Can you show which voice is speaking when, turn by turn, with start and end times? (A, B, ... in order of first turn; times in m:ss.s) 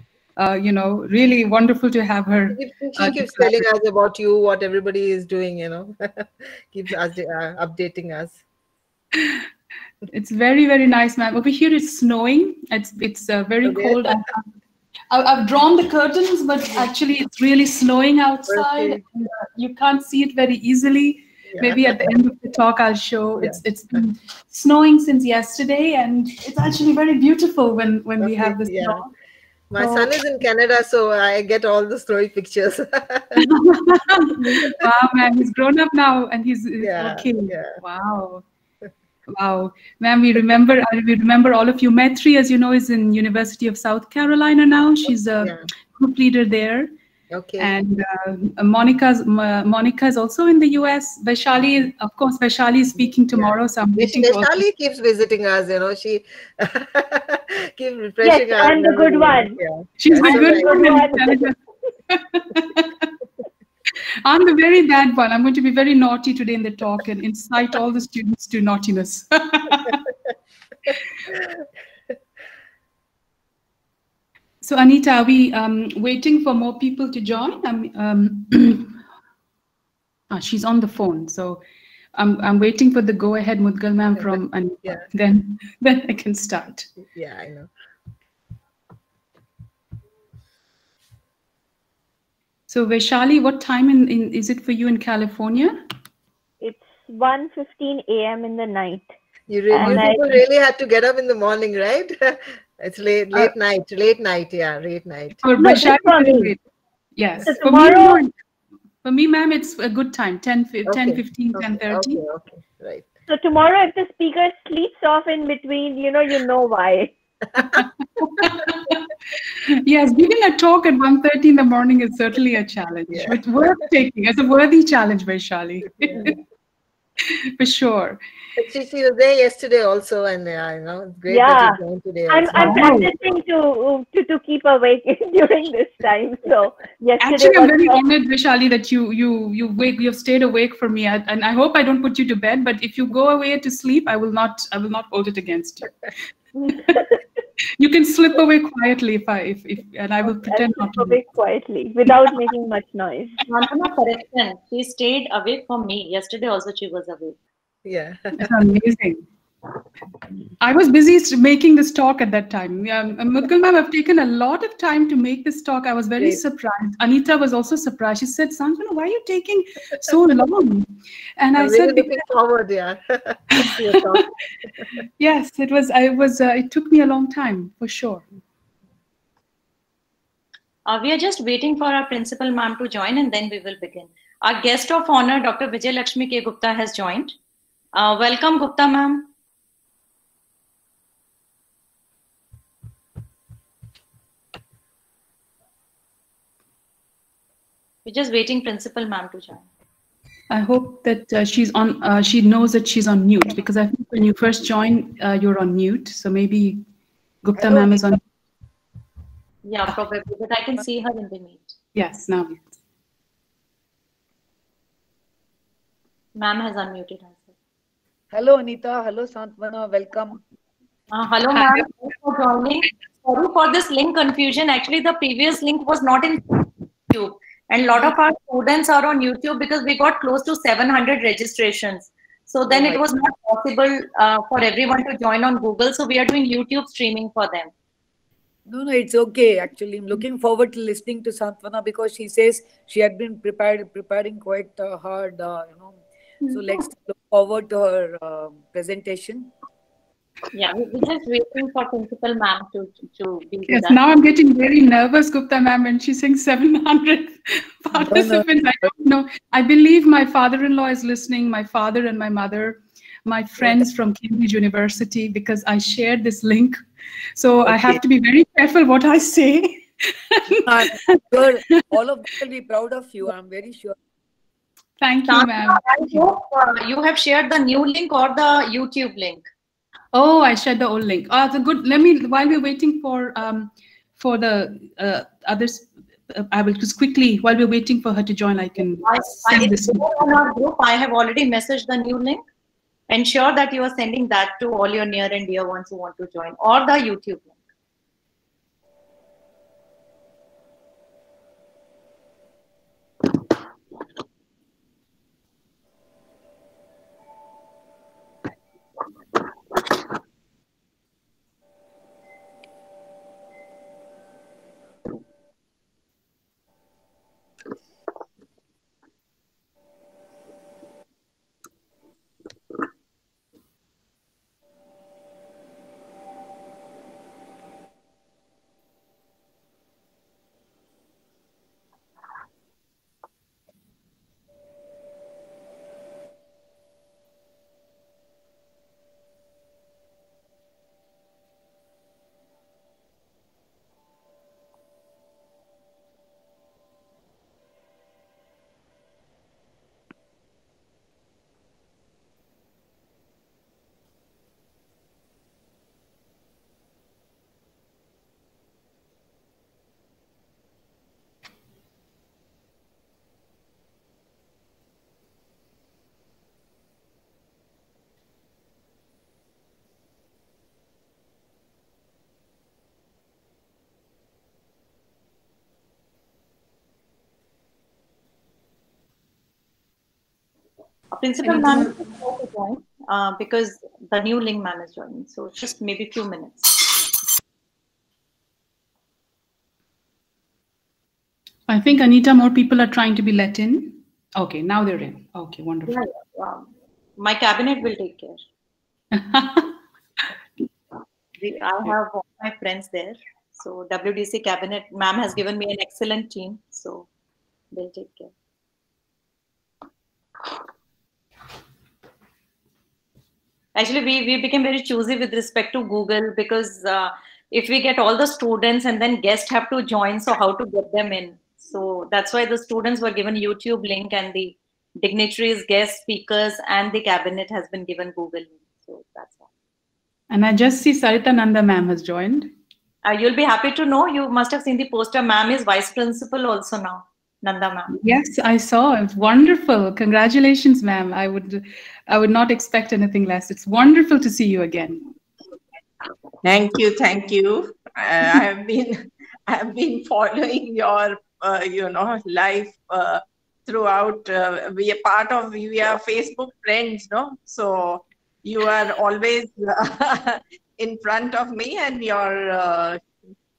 0:00.4-0:03.7 A
0:02.5-0:08.4 B
0:10.1-0:14.5 A
0:13.6-0:14.2 B
0:15.1-0:29.1 A
0:18.5-0:19.0 B
0:21.5-0:22.1 B
0:28.2-0:29.1 B
0:29.7-0:33.5 B
0:29.8-0:30.1 A
0:33.4-0:38.4 A
0:34.3-0:34.9 B
0:36.8-0:37.8 B
0:39.3-0:46.9 A
0:47.3-0:47.7 B
0:47.6-0:54.6 A
0:53.3-1:01.0 B
0:58.2-0:59.6 C
1:00.0-1:01.6 A
1:00.2-1:01.5 C
1:02.1-1:03.1 A
1:04.2-1:10.0 A
1:14.6-1:19.0 A
1:20.3-1:21.6 A
1:22.2-1:26.9 A
1:27.1-1:27.7 B
1:32.7-1:35.8 A
1:36.6-1:39.1 C
1:39.5-1:45.4 B
1:39.7-1:40.4 C
1:45.4-1:46.6 A
1:45.6-1:46.6 C
1:47.2-1:48.3 A
1:47.4-1:48.2 C
1:49.0-1:52.2 A
1:50.9-1:53.1 B
1:53.3-1:57.1 C
1:57.8-1:59.0 A
1:59.6-2:06.4 A
2:03.1-2:03.4 B
2:07.3-2:08.2 A
2:08.6-2:13.1 B
2:11.3-2:18.1 C
2:12.6-2:12.9 A
2:17.2-2:25.9 A
2:26.7-2:27.0 A
2:27.8-2:31.2 A
2:30.3-2:33.4 C
2:33.4-2:37.4 D
2:37.8-2:38.5 B
2:38.3-2:39.2 A
2:40.6-2:52.2 A
2:51.6-2:54.3 B
2:53.6-2:54.2 A
2:55.2-2:58.2 A
3:00.9-3:07.4 D
3:08.0-3:09.3 D
3:18.0-3:19.6 D
3:20.5-3:26.8 A
3:27.4-3:28.2 A
3:29.6-3:31.7 D
3:32.0-3:32.6 A
3:36.4-3:37.5 D
3:38.3-3:40.4 E
3:41.1-3:57.7 D
3:52.7-3:53.0 B
3:58.7-4:09.5 E
4:10.5-4:14.0 D
4:13.7-4:26.8 A
4:18.0-4:18.4 E
4:27.4-4:31.2 A
4:27.7-4:28.0 E
4:30.6-4:34.0 E
4:35.0-4:36.2 A
4:35.3-4:39.4 D
4:40.1-4:50.2 A
4:49.0-4:52.4 D
4:53.1-4:57.5 D
6:21.1-6:27.1 D
6:31.7-6:35.9 A
6:35.9-6:38.4 D
6:39.1-6:39.7 A
6:41.4-6:47.1 D
6:47.7-6:48.3 D
6:53.8-7:09.4 D
7:10.3-7:12.5 A
7:13.0-7:17.9 D
7:18.0-7:25.0 A
7:26.4-7:43.0 F